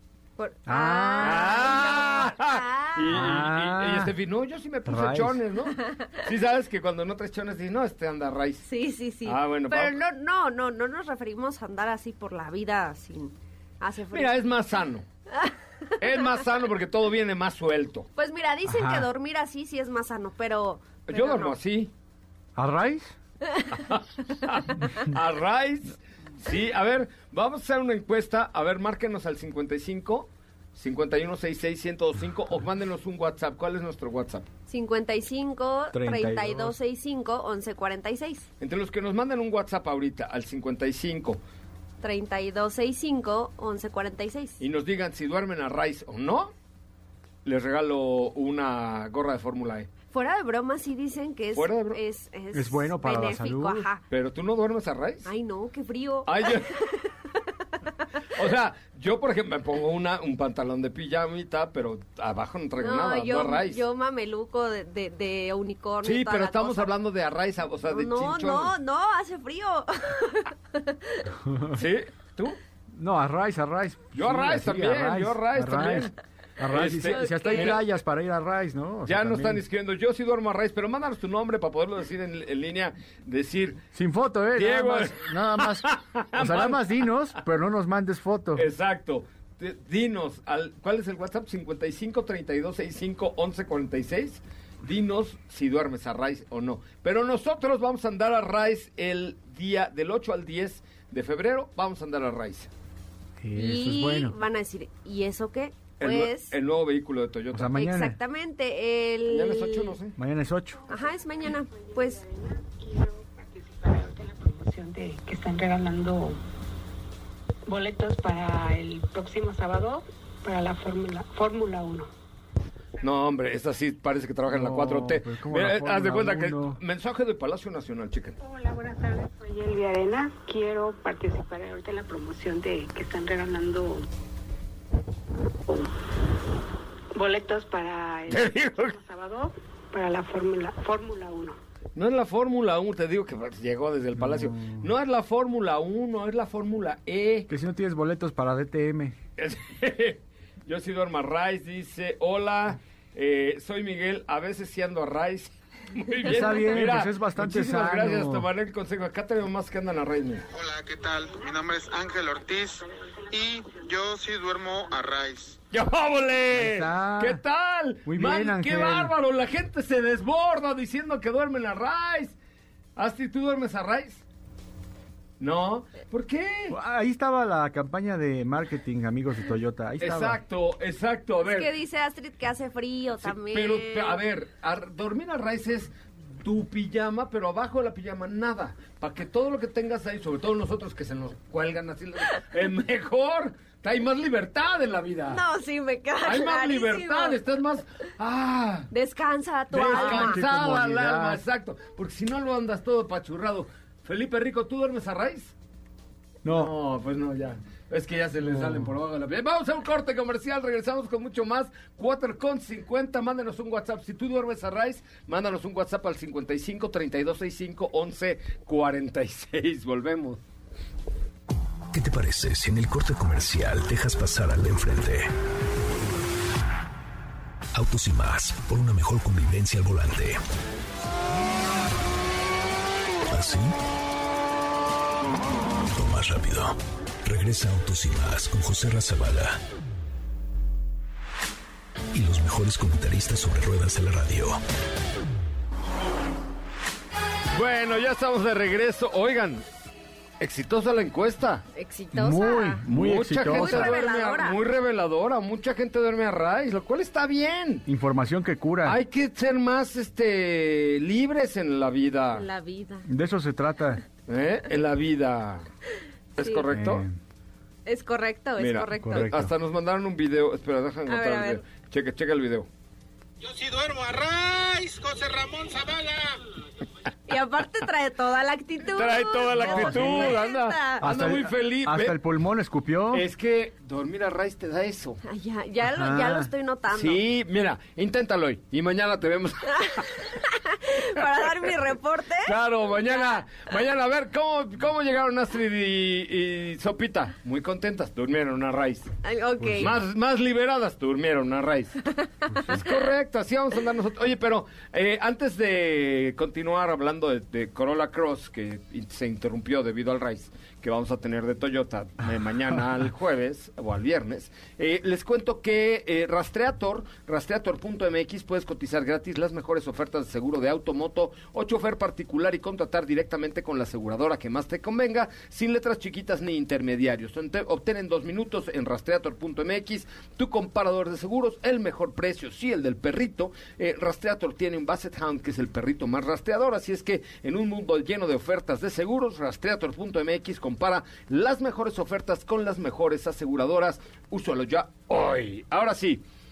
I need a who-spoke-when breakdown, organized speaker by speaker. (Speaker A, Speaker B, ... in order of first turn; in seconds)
Speaker A: 0.4-3.4, 5.8-6.2, 8.7-14.3, 18.2-21.6, 34.7-38.5, 42.0-44.6, 50.1-54.0, 55.3-56.8, 62.8-66.9, 67.9-71.2, 77.1-77.7, 103.5-106.6, 107.7-110.0, 110.9-112.2, 181.4-184.2, 195.3-197.4, 198.9-200.5, 251.8-252.8, 253.4-254.6, 262.3-263.1, 266.4-266.7, 267.9-269.3, 271.1-271.7, 277.3-281.1, 285.2-287.2, 290.4-292.5, 299.2-300.0, 302.3-302.9
Speaker B: 0.7-1.7, 3.1-4.1, 4.9-5.4, 18.7-19.1, 22.6-23.2, 35.9-36.8, 52.5-53.9, 71.4-71.8, 72.9-79.6, 83.9-88.7, 103.4-104.3, 107.5-108.2, 110.2-110.8, 124.5-126.8, 144.3-144.8, 147.5-149.2, 156.2-158.5, 166.5-167.4, 168.1-169.1, 176.7-180.4, 199.8-201.4, 206.4-206.7, 208.5-208.9, 252.1-254.0, 257.9-259.0, 263.1-264.0, 266.7-267.2, 269.0-269.5, 279.6-280.3, 281.0-283.2, 285.9-286.5, 299.6-299.9
Speaker C: 1.2-8.7, 9.3-10.0, 14.1-15.1, 16.0-18.1, 21.1-21.9, 23.9-34.5, 38.6-41.4, 44.6-46.5, 47.5-49.9, 51.5-52.0, 54.1-55.3, 56.3-56.7, 58.4-63.8, 66.0-68.8, 71.7-72.6, 74.1-76.1, 76.7-77.8, 79.0-83.8, 84.6-86.9, 88.5-102.7, 106.0-107.8, 109.3-110.1, 123.0-128.3, 138.3-138.9, 142.0-147.5, 149.4-160.5, 165.7-172.4, 173.0-174.2, 175.4-176.8, 180.0-181.7, 183.2-195.4, 196.2-198.9, 199.7-205.5, 206.5-220.4, 247.5-249.6, 250.4-251.7, 252.9-257.9, 258.9-262.5, 264.3-265.7, 266.4-267.1, 268.6-272.7, 278.9-282.2, 283.1-285.2, 286.9-290.0, 292.5-299.1, 299.8-302.0, 302.7-346.2
Speaker D: 110.9-116.4, 117.7-122.1, 128.4-134.1, 137.1-141.6, 163.3-163.8
Speaker E: 160.6-165.6, 273.4-276.4
Speaker F: 221.9-225.3, 227.7-230.4, 233.3-233.7, 235.9-239.6, 242.1-244.6